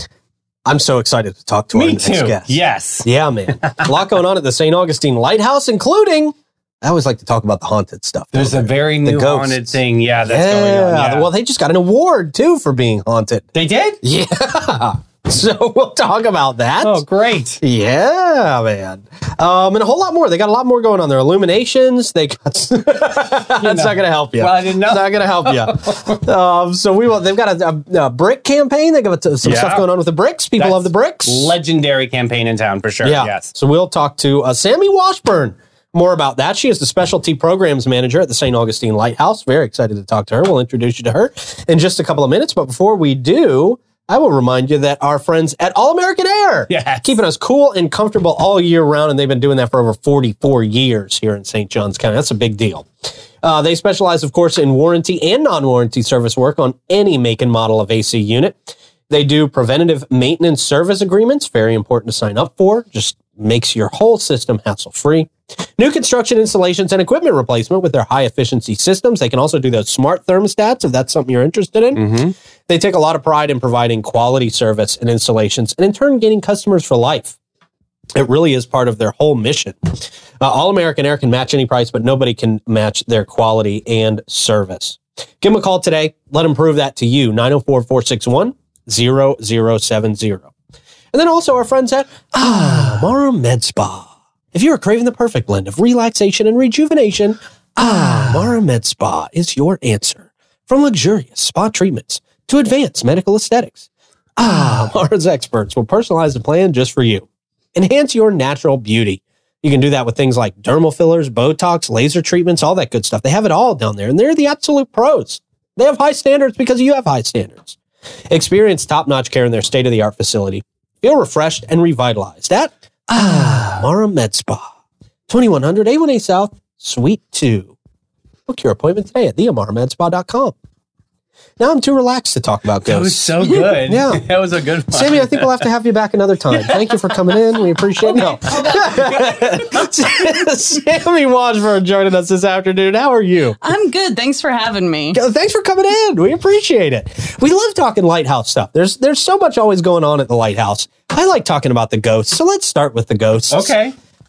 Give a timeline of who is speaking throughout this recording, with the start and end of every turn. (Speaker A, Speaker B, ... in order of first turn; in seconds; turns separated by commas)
Speaker A: 0.7-2.5, Speaker B: 1.7-3.0, Speaker A: 3.0-13.4, Speaker B: 3.6-4.0, Speaker B: 8.3-11.3, Speaker B: 13.5-14.0, Speaker A: 14.0-17.0, Speaker B: 16.8-17.6, Speaker A: 17.6-31.5, Speaker B: 23.6-26.2, Speaker B: 29.4-29.8, Speaker B: 30.6-33.5, Speaker A: 33.0-52.9, Speaker B: 46.7-47.1, Speaker A: 53.4-72.0, Speaker B: 71.9-72.3, Speaker A: 72.7-77.3, Speaker A: 78.1-90.5, Speaker A: 91.1-117.8, Speaker A: 118.3-124.7, Speaker B: 123.2-123.8, Speaker A: 125.3-127.7, Speaker A: 128.5-130.5, Speaker A: 131.6-134.2, Speaker B: 132.8-135.6, Speaker A: 134.9-143.6, Speaker B: 136.5-137.4, Speaker C: 138.0-139.6, Speaker B: 138.4-139.1, Speaker C: 143.6-145.2, Speaker A: 145.1-153.8, Speaker B: 153.5-153.9